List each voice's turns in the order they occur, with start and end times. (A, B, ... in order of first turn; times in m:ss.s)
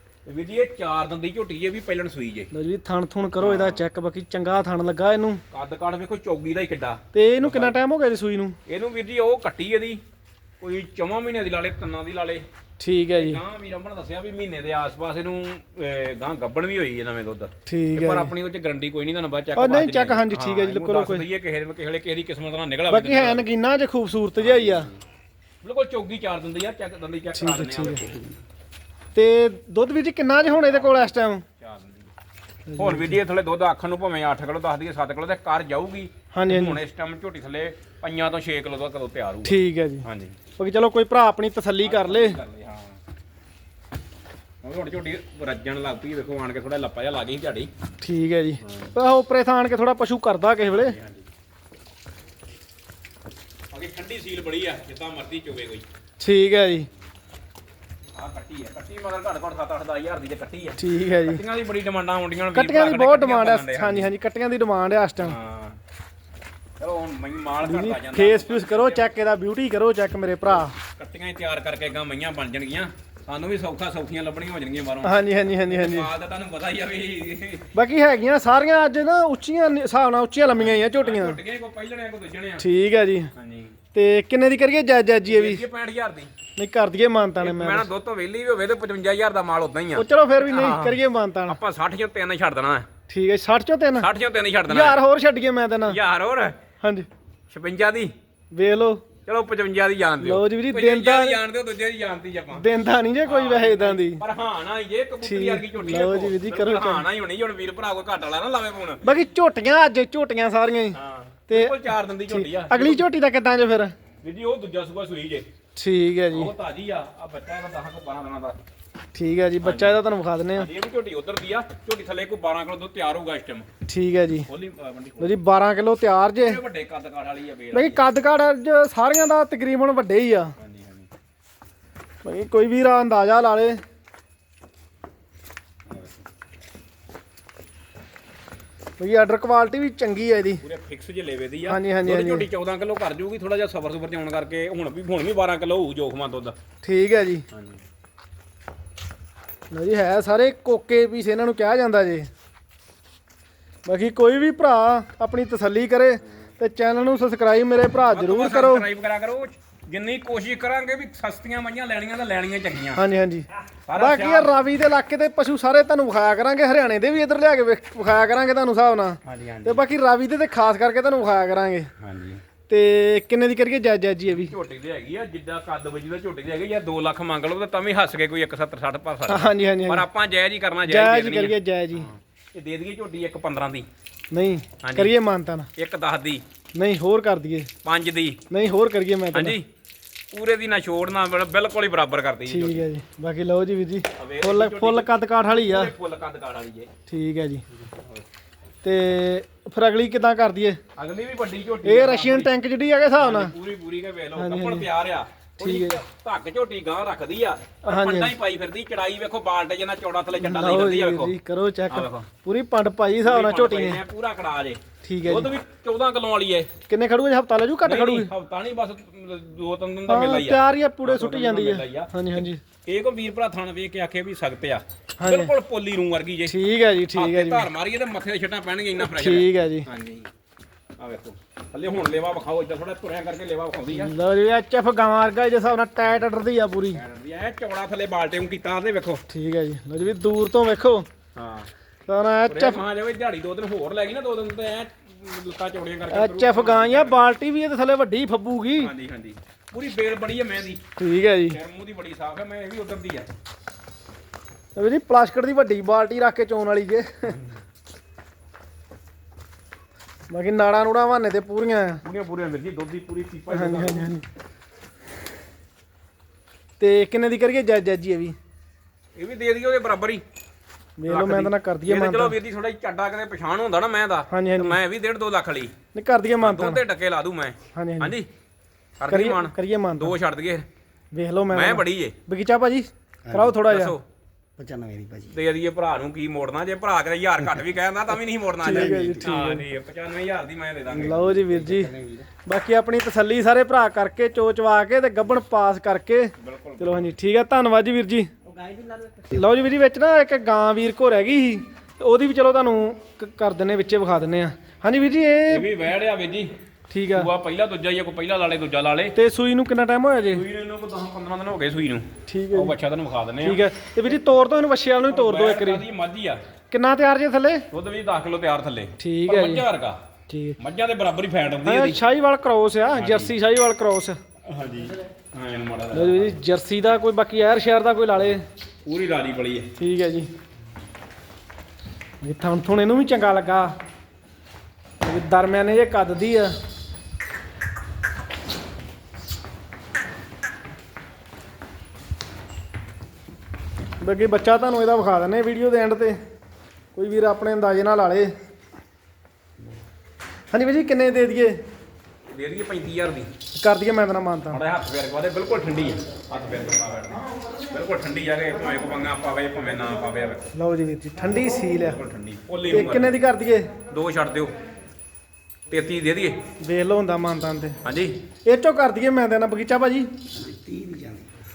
0:00.2-0:02.5 A
0:02.5-0:05.4 B
0:03.4-0:03.8 A
0:05.5-0:07.7 A
0:07.1-0:08.6 B
0:08.7-0:10.0 A
0:10.6-0:12.5 A
0:12.8-0:13.4 B
0:13.2-0:23.4 A
0:17.6-0:18.3 B
0:19.5-0:21.2 B
0:22.9-0:24.9 B
0:25.6-0:28.1 A
0:27.3-0:28.0 B
0:29.1-0:31.4 B
0:30.7-0:32.1 A
0:32.7-0:33.2 B
0:32.8-0:40.3 A
0:36.3-0:36.8 B
0:39.4-0:40.1 B
0:40.6-0:42.4 B
0:41.8-0:43.0 A
0:44.6-0:47.7 A
0:48.0-0:51.0 B
0:50.8-0:51.2 A
0:53.7-0:55.8 A
0:56.2-0:56.9 B
0:58.2-1:00.8 A
1:00.8-1:01.4 B
1:01.3-1:04.1 A
1:02.5-1:05.4 B
1:05.2-1:05.8 A
1:06.8-1:09.1 A
1:07.6-1:10.8 B
1:11.0-1:15.1 A
1:15.0-1:16.1 B
1:15.6-1:17.6 A
1:17.7-1:21.4 B
1:20.6-1:22.6 A
1:22.6-1:23.3 B
1:23.4-1:23.7 A
1:23.9-1:25.6 B
1:25.3-1:26.3 A
1:26.6-1:27.9 B
1:27.4-1:31.0 A
1:30.0-1:31.6 B
1:31.5-1:32.9 A
1:33.1-1:34.1 B
1:34.0-1:35.0 A
1:34.7-1:36.0 B
1:35.9-1:36.6 A
1:36.8-1:37.1 B
1:37.5-1:38.1 A
1:38.5-1:39.0 B
1:39.2-1:42.6 A
1:40.2-1:41.4 B
1:42.5-1:44.2 B
1:43.2-1:49.0 A
1:45.2-1:47.1 B
1:49.0-1:53.9 B
1:50.9-1:53.0 A
1:54.2-1:55.5 A
1:55.8-1:56.5 B
1:56.4-1:58.6 A
1:59.1-2:00.7 B
1:59.6-2:00.0 A
2:00.6-2:03.7 A
2:03.9-2:04.5 B
2:04.5-2:05.2 A
2:05.2-2:06.6 B
2:06.4-2:08.0 A
2:07.7-2:10.5 B
2:10.6-2:11.1 A
2:12.2-2:13.8 B
2:19.0-2:20.6 B
2:20.6-2:26.6 A
2:21.6-2:22.5 B
2:26.8-2:27.4 B
2:29.7-2:32.3 B
2:33.8-2:38.9 B
2:38.1-2:43.0 A
2:42.9-2:51.9 B
2:43.8-2:44.5 A
2:49.2-2:49.8 A
2:52.0-2:52.4 A
2:52.7-2:54.5 B
2:54.3-3:03.9 A
2:59.3-3:00.0 B
3:00.9-3:02.1 B
3:04.3-3:05.7 B
3:04.8-3:05.1 A
3:05.8-3:06.4 A
3:06.7-3:07.7 B
3:07.8-3:08.4 A
3:08.5-3:09.6 B
3:09.3-3:09.6 A
3:10.3-3:12.8 A
3:12.5-3:15.9 B
3:14.2-3:16.9 A
3:17.1-3:17.6 B
3:18.8-3:20.8 B
3:21.0-3:22.5 A
3:21.8-3:23.5 B
3:23.2-3:31.3 A
3:24.4-3:24.9 B
3:25.6-3:26.0 B
3:27.8-3:28.4 B
3:30.3-3:34.0 B
3:31.9-3:32.3 A
3:33.2-3:36.7 A
3:35.0-3:35.5 B
3:36.9-3:38.3 B
3:37.8-3:46.5 A
3:40.1-3:42.6 B
3:45.2-3:45.5 B
3:46.4-3:47.7 B
3:47.1-3:50.3 A
3:49.0-3:49.9 B
3:51.0-3:54.1 A
3:53.9-3:57.0 B
3:56.9-3:59.2 A
3:59.3-4:01.1 B
4:01.4-4:01.7 A
4:02.1-4:02.8 B
4:02.4-4:07.2 A
4:06.1-4:08.9 B
4:08.8-4:10.8 A
4:11.0-4:11.6 B
4:11.5-4:13.3 A
4:14.8-4:17.4 B
4:20.3-4:22.0 B
4:22.0-4:24.1 A
4:23.5-4:24.2 B
4:26.8-4:28.4 B
4:29.1-4:30.2 A
4:31.0-4:32.4 B
4:31.1-4:35.7 A
4:34.3-4:34.8 B
4:35.9-4:36.8 B
4:36.4-4:38.3 A
4:37.7-4:38.2 B
4:39.0-4:40.6 A
4:39.1-4:40.1 B
4:41.1-4:44.0 B
4:41.5-4:42.2 A
4:43.5-4:44.0 A
4:44.6-4:45.4 C
4:45.2-4:51.4 A
4:48.6-4:49.6 B
4:48.8-4:49.6 C
4:50.9-4:51.9 B
4:51.1-4:52.2 C
4:52.4-4:58.3 B
4:56.4-4:57.1 A
4:58.4-4:59.3 C
4:59.3-5:05.7 B
5:05.5-5:06.5 A
5:06.9-5:07.3 B
5:07.2-5:09.2 A
5:09.1-5:10.4 B
5:10.3-5:13.6 A
5:12.3-5:12.8 B
5:13.4-5:15.8 B
5:15.1-5:16.4 A
5:16.7-5:17.6 B
5:17.7-5:20.0 A
5:19.0-5:19.6 B
5:20.3-5:20.6 B
5:20.6-5:22.0 A
5:21.6-5:24.2 B
5:22.9-5:23.3 A
5:24.4-5:26.3 A
5:25.9-5:28.4 B
5:28.8-5:29.7 A
5:29.8-5:30.3 B
5:32.2-5:33.7 B
5:35.0-5:36.5 B
5:44.0-5:46.2 B
5:46.9-5:48.3 B
5:50.5-5:51.5 B
5:52.3-5:53.3 A
5:53.5-5:54.6 B
5:54.5-6:00.5 A
6:00.5-6:02.0 B
6:01.9-6:03.2 A
6:02.7-6:03.7 B
6:03.9-6:04.6 A
6:05.7-6:06.4 A
6:06.6-6:07.8 B
6:07.8-6:08.2 A
6:08.5-6:10.1 B
6:10.4-6:11.2 C